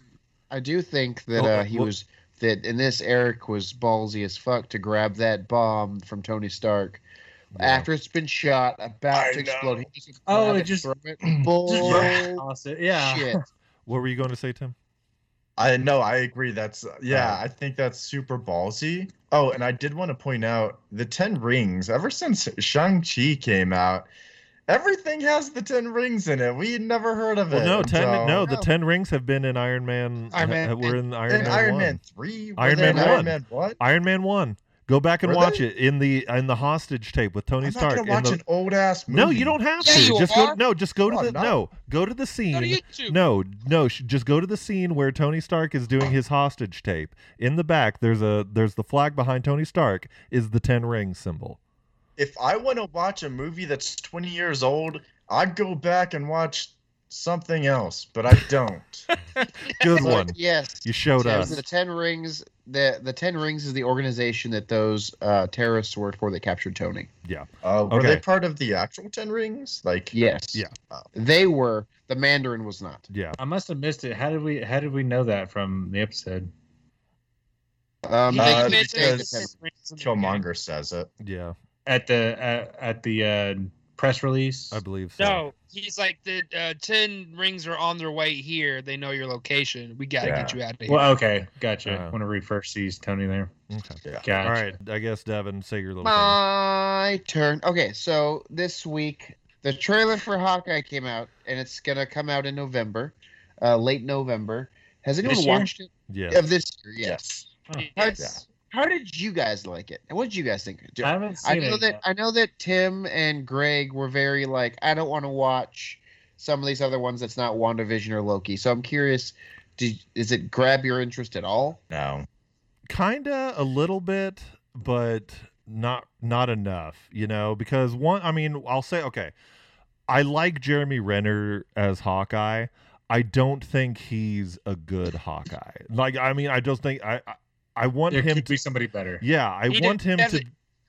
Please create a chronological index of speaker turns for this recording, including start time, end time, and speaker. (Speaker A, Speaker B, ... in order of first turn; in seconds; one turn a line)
Speaker A: 0.5-7.0
Speaker B: 1.4-1.9
Speaker A: 7.6-13.4
Speaker C: 7.6-7.9
Speaker C: 9.1-9.9
Speaker D: 10.3-10.9
Speaker C: 11.2-12.2
Speaker D: 11.7-13.4
Speaker B: 13.9-14.7
Speaker C: 15.6-24.1
Speaker B: 17.1-17.4
Speaker C: 24.7-28.5
Speaker B: 27.5-32.0
Speaker E: 30.3-31.0
Speaker C: 31.3-33.8
Speaker B: 32.6-38.4
Speaker A: 32.8-33.2
Speaker C: 35.2-35.6
Speaker C: 37.6-40.2
Speaker B: 39.1-51.6
Speaker E: 39.8-40.6
Speaker C: 41.0-41.5
Speaker E: 42.5-43.2
Speaker C: 52.2-59.1
Speaker B: 59.4-61.6
Speaker A: 60.0-67.1
Speaker B: 67.2-68.2
Speaker C: 67.6-70.2
Speaker A: 70.1-73.1
Speaker B: 73.1-73.4
Speaker D: 73.4-76.5
Speaker A: 78.0-79.5
Speaker E: 78.3-80.4
Speaker C: 78.3-79.4
Speaker C: 80.0-81.1
Speaker B: 81.2-81.5
Speaker D: 81.9-84.8
Speaker B: 84.7-85.5
Speaker E: 85.2-91.1
Speaker C: 90.2-90.6
Speaker D: 90.9-93.5
Speaker B: 91.8-92.1
Speaker B: 93.7-96.4
Speaker D: 94.2-94.8
Speaker A: 96.0-107.2
Speaker B: 105.2-106.4
Speaker C: 107.0-107.5
Speaker E: 107.7-108.3
Speaker A: 108.0-121.8
Speaker D: 111.0-112.0
Speaker C: 121.9-122.3
Speaker B: 122.9-129.3
Speaker B: 130.1-138.5
Speaker D: 138.1-139.2
Speaker B: 139.2-140.5
Speaker E: 139.7-140.4